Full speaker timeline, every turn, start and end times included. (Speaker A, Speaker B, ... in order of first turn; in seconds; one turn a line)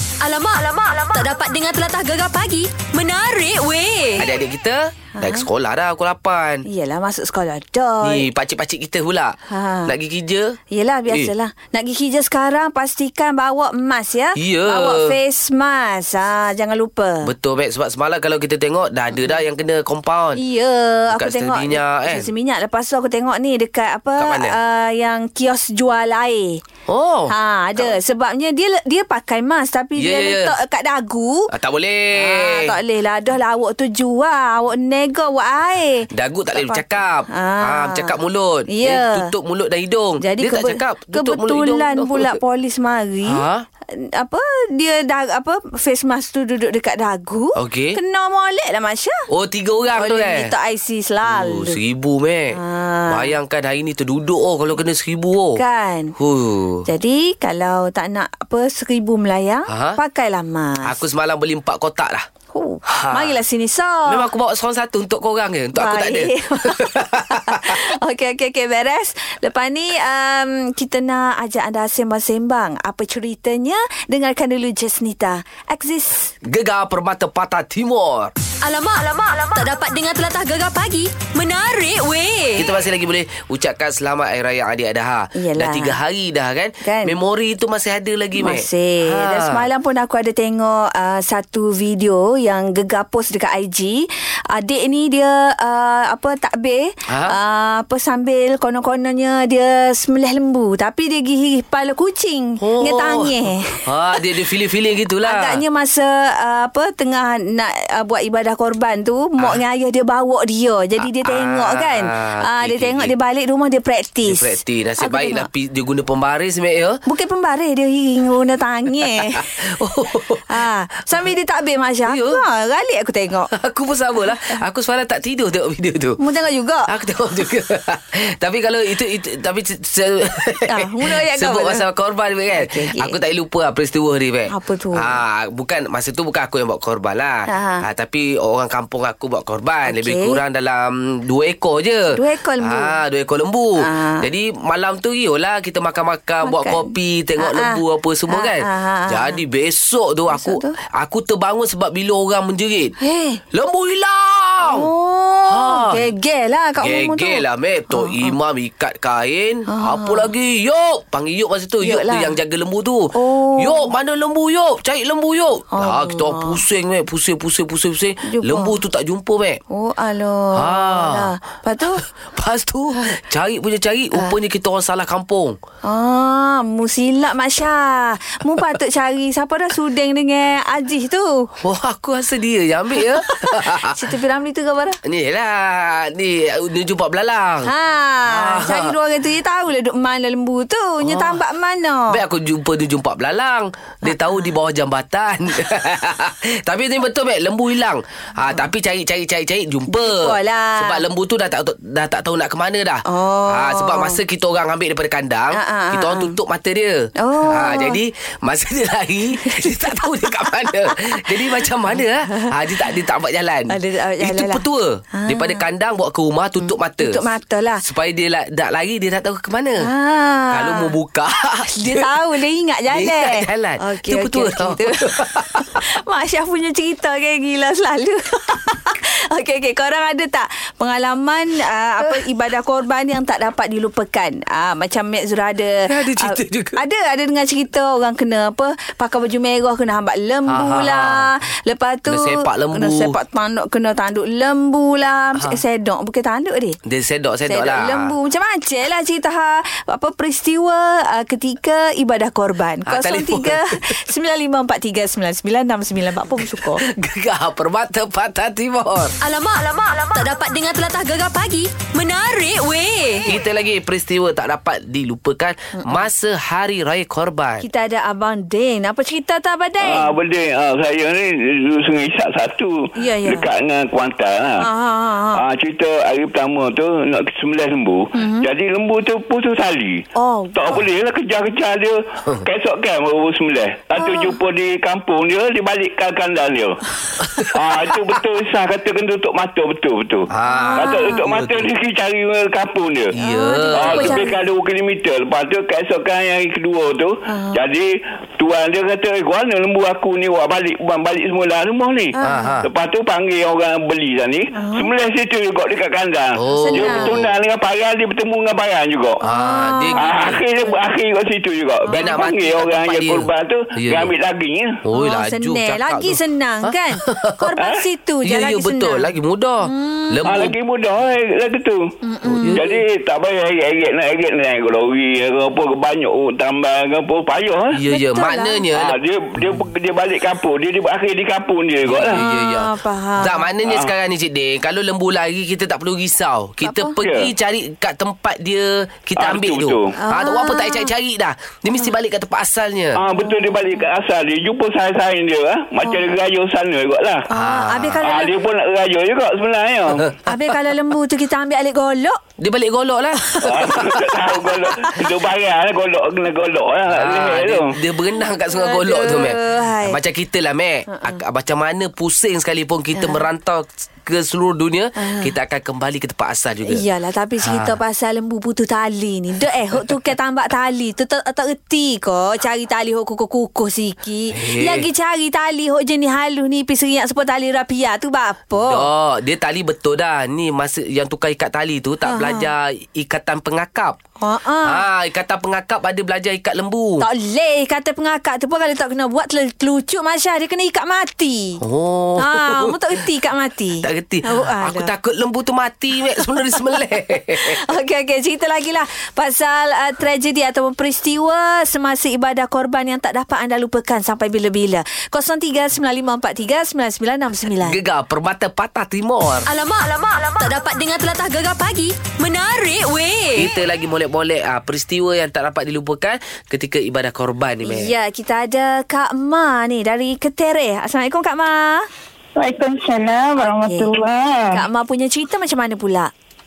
Speaker A: 0.2-4.3
Speaker B: 4.2-6.7
Speaker C: 5.2-5.5
Speaker C: 6.7-8.2
Speaker B: 8.0-10.6
Speaker C: 9.5-9.9
Speaker C: 10.7-17.3
Speaker B: 14.4-15.2
Speaker B: 17.2-20.4
Speaker C: 20.4-26.6
Speaker B: 21.1-22.3
Speaker B: 24.2-24.6
Speaker B: 26.9-27.9
Speaker C: 27.3-31.5
Speaker B: 30.0-30.6
Speaker B: 31.5-32.8
Speaker C: 32.1-38.1
Speaker B: 36.1-42.4
Speaker C: 38.7-39.3
Speaker C: 40.2-49.2
Speaker B: 43.2-43.6
Speaker B: 47.6-48.0
Speaker B: 49.3-50.5
Speaker C: 49.9-51.8
Speaker B: 51.2-55.6
Speaker C: 52.5-53.3
Speaker C: 55.6-56.1
Speaker B: 56.1-56.9
Speaker C: 56.9-61.0
Speaker B: 59.7-60.0
Speaker B: 60.8-62.2
Speaker C: 62.5-64.3
Speaker B: 62.9-63.4
Speaker B: 64.1-67.8
Speaker C: 65.8-76.3
Speaker B: 76.5-78.3
Speaker A: 78.6-82.7
Speaker B: 82.6-89.7
Speaker C: 85.4-86.0
Speaker C: 86.8-87.2
Speaker C: 88.4-103.8
Speaker B: 97.1-97.4
Speaker B: 102.6-105.6
Speaker C: 105.2-115.5
Speaker B: 111.0-113.1
Speaker B: 114.2-117.0
Speaker C: 117.1-119.6
Speaker B: 119.0-120.6
Speaker C: 120.5-123.5
Speaker B: 122.1-122.4
Speaker B: 123.5-126.2
Speaker C: 126.2-126.9
Speaker B: 126.9-152.9
Speaker C: 130.7-131.8
Speaker C: 132.5-133.1
Speaker C: 134.5-135.2
Speaker C: 137.5-137.8
Speaker C: 139.9-140.4
Speaker C: 142.1-142.9
Speaker C: 143.8-144.2
Speaker C: 146.4-149.4
Speaker C: 150.3-150.8
Speaker C: 153.0-153.4
Speaker B: 153.5-154.9
Speaker C: 154.6-158.3
Speaker B: 155.5-156.1
Speaker B: 156.8-169.6
Speaker C: 159.7-160.3
Speaker C: 161.8-162.4
Speaker C: 163.1-163.9
Speaker C: 165.7-166.6
Speaker C: 168.2-168.8
Speaker C: 169.7-172.0
Speaker B: 170.6-171.3
Speaker B: 172.3-175.6
Speaker C: 175.8-181.5
Speaker B: 181.6-184.1
Speaker C: 183.3-185.0
Speaker B: 185.1-187.7
Speaker C: 187.6-192.2
Speaker B: 188.3-188.9
Speaker B: 191.0-191.4
Speaker B: 192.1-217.3
Speaker C: 194.1-194.5
Speaker C: 199.9-201.0
Speaker C: 203.1-204.2
Speaker C: 205.5-206.4
Speaker C: 207.2-208.0
Speaker C: 209.4-210.4
Speaker C: 211.1-211.5
Speaker C: 212.2-212.9
Speaker C: 213.7-215.6
Speaker C: 216.6-217.8
Speaker B: 217.8-219.9
Speaker C: 219.8-220.9
Speaker B: 220.5-222.1
Speaker C: 221.7-246.8
Speaker B: 222.9-225.8
Speaker B: 235.9-236.8
Speaker B: 240.5-241.3
Speaker B: 242.1-243.2
Speaker B: 246.9-248.1
Speaker C: 247.5-256.8
Speaker B: 252.9-253.9
Speaker B: 256.5-259.1
Speaker A: 259.2-263.3
Speaker B: 263.3-267.7
Speaker C: 267.6-270.1
Speaker D: 269.8-272.7
Speaker C: 272.9-273.5
Speaker D: 273.2-274.7
Speaker C: 274.6-275.4
Speaker D: 275.3-280.0
Speaker C: 278.1-278.5
Speaker C: 280.1-280.7
Speaker D: 280.6-286.8
Speaker C: 283.9-284.4
Speaker B: 287.2-287.5
Speaker D: 287.5-293.1
Speaker B: 290.3-291.7
Speaker C: 290.4-291.2
Speaker B: 293.1-294.2
Speaker C: 293.2-294.4
Speaker D: 293.7-309.2
Speaker C: 297.3-297.6
Speaker C: 302.2-302.6
Speaker B: 302.2-302.7
Speaker C: 304.5-304.9
Speaker B: 306.4-307.1
Speaker C: 306.5-307.2
Speaker C: 309.2-310.2
Speaker B: 309.2-310.4
Speaker D: 310.0-314.7
Speaker B: 311.9-314.1
Speaker B: 314.8-317.4
Speaker C: 314.9-319.1
Speaker B: 318.2-320.6
Speaker C: 319.6-320.3
Speaker D: 320.3-321.8
Speaker C: 322.0-322.8
Speaker B: 322.3-322.7
Speaker D: 322.5-327.8
Speaker B: 327.7-329.0
Speaker C: 327.9-328.7
Speaker D: 328.7-332.2
Speaker B: 331.8-343.0
Speaker C: 332.1-333.4
Speaker C: 336.6-336.9
Speaker D: 337.0-337.3
Speaker D: 339.2-339.9
Speaker C: 340.0-340.9
Speaker D: 342.9-347.2
Speaker C: 343.2-343.9
Speaker C: 345.8-346.1
Speaker C: 347.3-348.3
Speaker B: 347.3-348.1
Speaker D: 348.0-350.1
Speaker C: 350.3-352.2
Speaker B: 352.4-354.0
Speaker D: 353.4-357.7
Speaker B: 356.9-366.8
Speaker C: 358.5-360.0
Speaker C: 360.9-361.2
Speaker C: 362.9-363.2
Speaker C: 365.0-365.3
Speaker C: 366.7-378.9
Speaker B: 367.4-367.8
Speaker B: 374.3-374.9
Speaker B: 378.6-384.0
Speaker C: 382.1-382.5
Speaker C: 384.2-384.8
Speaker B: 384.6-387.1
Speaker C: 387.0-391.6
Speaker B: 391.6-393.1
Speaker C: 392.2-394.9
Speaker B: 393.8-397.6
Speaker C: 397.4-407.8
Speaker B: 407.6-409.5
Speaker A: 409.4-413.5
Speaker B: 413.3-417.9
Speaker C: 417.6-421.9
Speaker E: 422.4-424.6
Speaker C: 423.4-423.9
Speaker C: 424.5-426.1